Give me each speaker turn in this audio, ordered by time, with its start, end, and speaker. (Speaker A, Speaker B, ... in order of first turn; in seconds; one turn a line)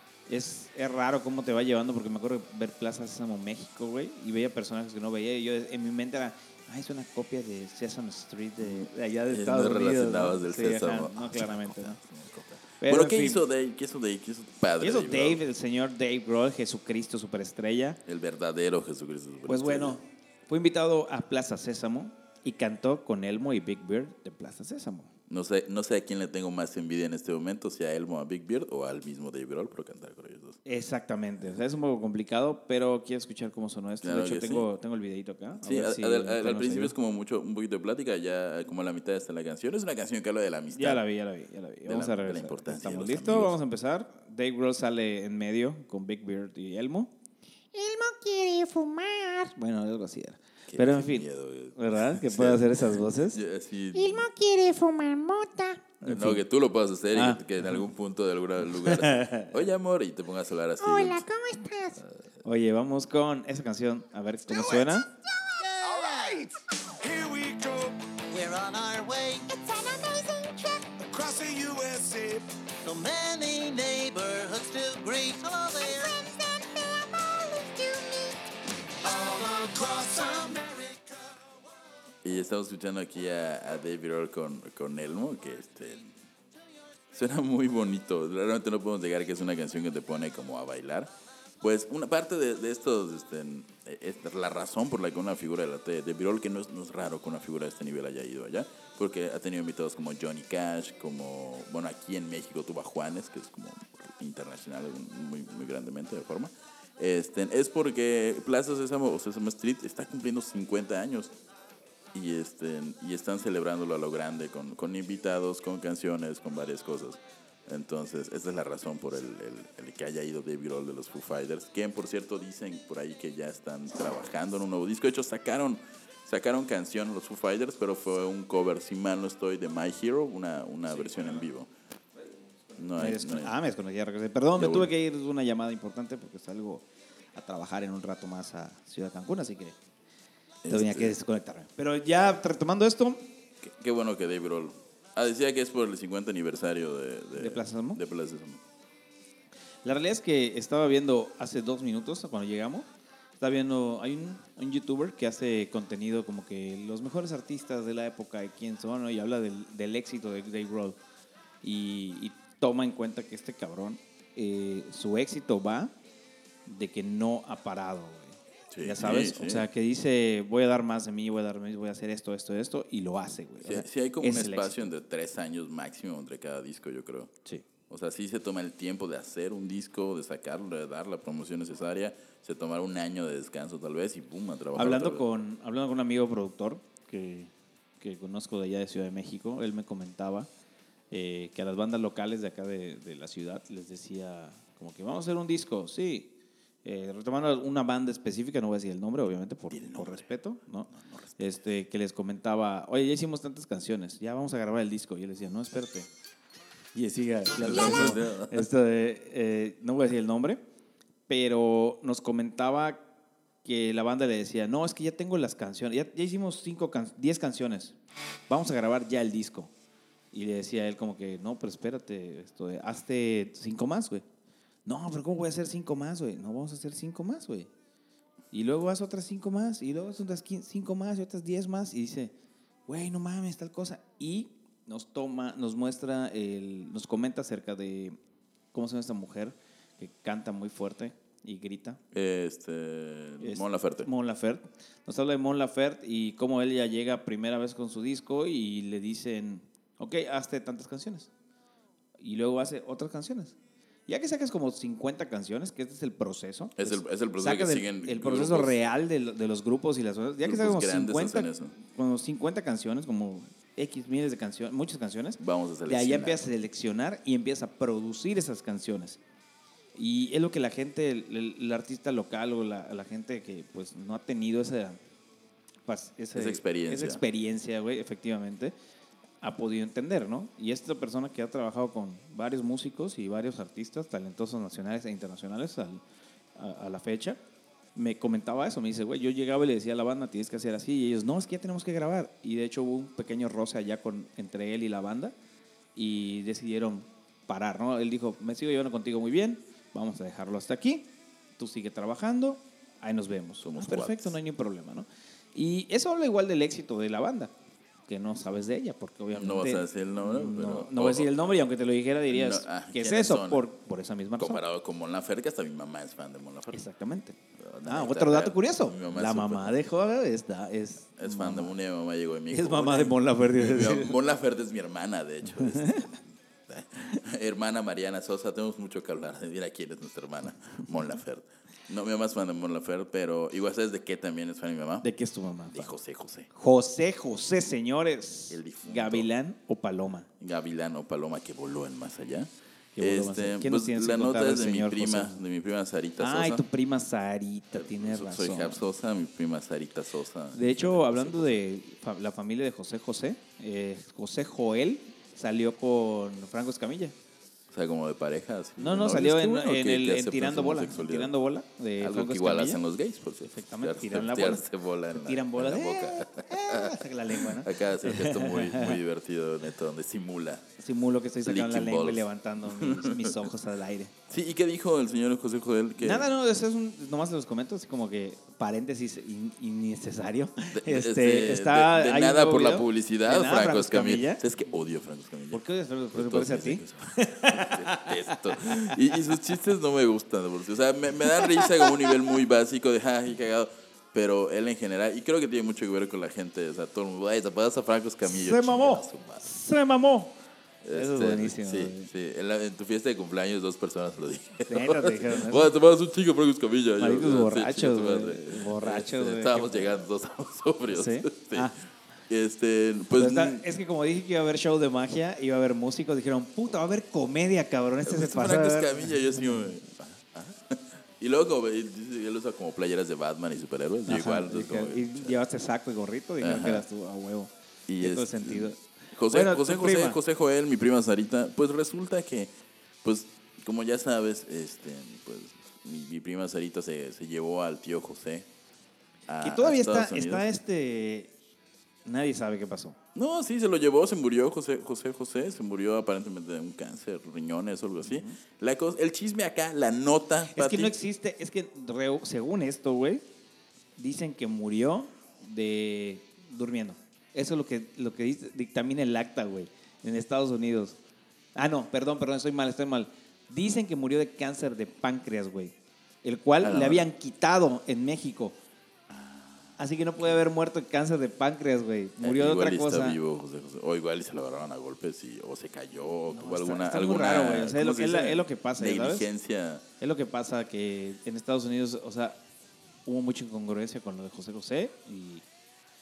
Speaker A: 0.3-12.0
Speaker B: 8.6-15.4
Speaker A: 12.8-13.4
Speaker A: 14.8-18.0
Speaker B: 18.0-20.0
Speaker A: 19.4-25.1
Speaker B: 25.3-30.6
Speaker A: 30.6-36.9
Speaker B: 34.0-34.6
Speaker B: 35.6-41.0
Speaker A: 40.7-47.1
Speaker B: 41.9-43.6
Speaker A: 47.7-53.4
Speaker B: 50.7-54.3
Speaker A: 53.9-56.4
Speaker C: 54.4-54.8
Speaker B: 56.0-61.3
Speaker A: 57.1-57.7
Speaker A: 58.8-59.5
Speaker A: 60.8-65.1
Speaker D: 64.5-65.0
Speaker D: 65.6-68.0
Speaker E: 65.8-66.4
Speaker E: 68.3-69.6
Speaker A: 69.7-70.5
Speaker D: 71.0-72.5
Speaker E: 72.8-76.4
Speaker C: 76.4-78.2
Speaker E: 77.3-78.3
Speaker D: 79.0-81.3
Speaker B: 82.2-86.2
Speaker B: 87.1-111.3
Speaker B: 112.1-131.7
Speaker B: 132.8-133.5
Speaker A: 133.0-139.8
Speaker B: 134.6-134.9
Speaker B: 140.6-141.1
Speaker A: 140.7-143.2
Speaker B: 143.6-148.6
Speaker A: 147.3-148.0
Speaker A: 149.8-152.9
Speaker A: 153.4-161.0
Speaker A: 161.6-165.9
Speaker A: 166.7-174.9
Speaker B: 168.7-169.7
Speaker B: 173.6-177.4
Speaker B: 177.9-185.2
Speaker A: 184.7-190.5
Speaker A: 191.1-196.3
Speaker A: 196.8-206.1
Speaker B: 199.7-200.3
Speaker B: 200.9-201.6
Speaker A: 206.9-210.6
Speaker B: 207.5-208.7
Speaker A: 211.3-213.0
Speaker A: 213.6-217.9
Speaker A: 218.5-219.7
Speaker A: 220.3-224.2
Speaker A: 224.8-227.7
Speaker A: 228.5-232.3
Speaker A: 232.9-238.2
Speaker A: 238.7-242.0
Speaker B: 242.1-244.1
Speaker A: 243.4-251.3
Speaker A: 252.2-253.6
Speaker A: 254.1-269.2
Speaker B: 256.8-258.8
Speaker B: 260.4-261.7
Speaker B: 265.4-266.5
Speaker A: 269.9-275.0
Speaker A: 275.9-278.7
Speaker B: 276.3-277.2
Speaker A: 279.4-286.0
Speaker A: 286.6-287.4
Speaker A: 287.9-295.3
Speaker A: 295.9-307.5
Speaker B: 303.6-304.3
Speaker A: 308.1-314.6
Speaker B: 309.3-311.3
Speaker B: 312.3-313.6
Speaker B: 314.4-316.8
Speaker A: 316.7-321.7
Speaker B: 317.6-319.8
Speaker B: 321.2-335.1
Speaker A: 322.5-324.2
Speaker A: 325.5-326.2
Speaker A: 335.0-335.9
Speaker B: 335.7-336.5
Speaker A: 336.5-340.3
Speaker B: 338.5-339.3
Speaker B: 340.4-346.6
Speaker A: 342.9-345.4
Speaker A: 346.2-348.8
Speaker B: 347.7-351.5
Speaker A: 350.5-357.1
Speaker B: 357.7-361.3
Speaker A: 358.8-362.8
Speaker B: 362.0-370.7
Speaker A: 363.5-369.0
Speaker A: 370.8-374.1
Speaker B: 371.4-373.5
Speaker B: 374.3-376.3
Speaker A: 376.0-384.4
Speaker B: 380.7-399.5
Speaker A: 385.5-388.9
Speaker A: 391.2-392.3
Speaker A: 398.2-400.4
Speaker B: 400.8-411.7
Speaker A: 400.9-402.1
Speaker A: 404.7-405.7
Speaker A: 407.0-410.0
Speaker A: 410.9-411.8
Speaker B: 412.3-413.6
Speaker A: 413.1-419.6
Speaker B: 418.0-425.4
Speaker A: 424.1-430.2
Speaker B: 426.4-426.8
Speaker B: 427.9-432.5
Speaker B: 433.0-438.5
Speaker B: 439.3-440.5
Speaker A: 439.4-441.3
Speaker A: 442.0-443.0
Speaker B: 443.1-450.9
Speaker A: 448.0-448.4
Speaker A: 450.5-453.2
Speaker A: 454.0-461.0
Speaker A: 461.6-468.6
Speaker B: 466.6-467.1
Speaker B: 469.1-469.7
Speaker A: 469.8-473.2
Speaker B: 472.2-479.8
Speaker A: 476.3-479.3
Speaker A: 480.0-482.4
Speaker A: 483.1-485.4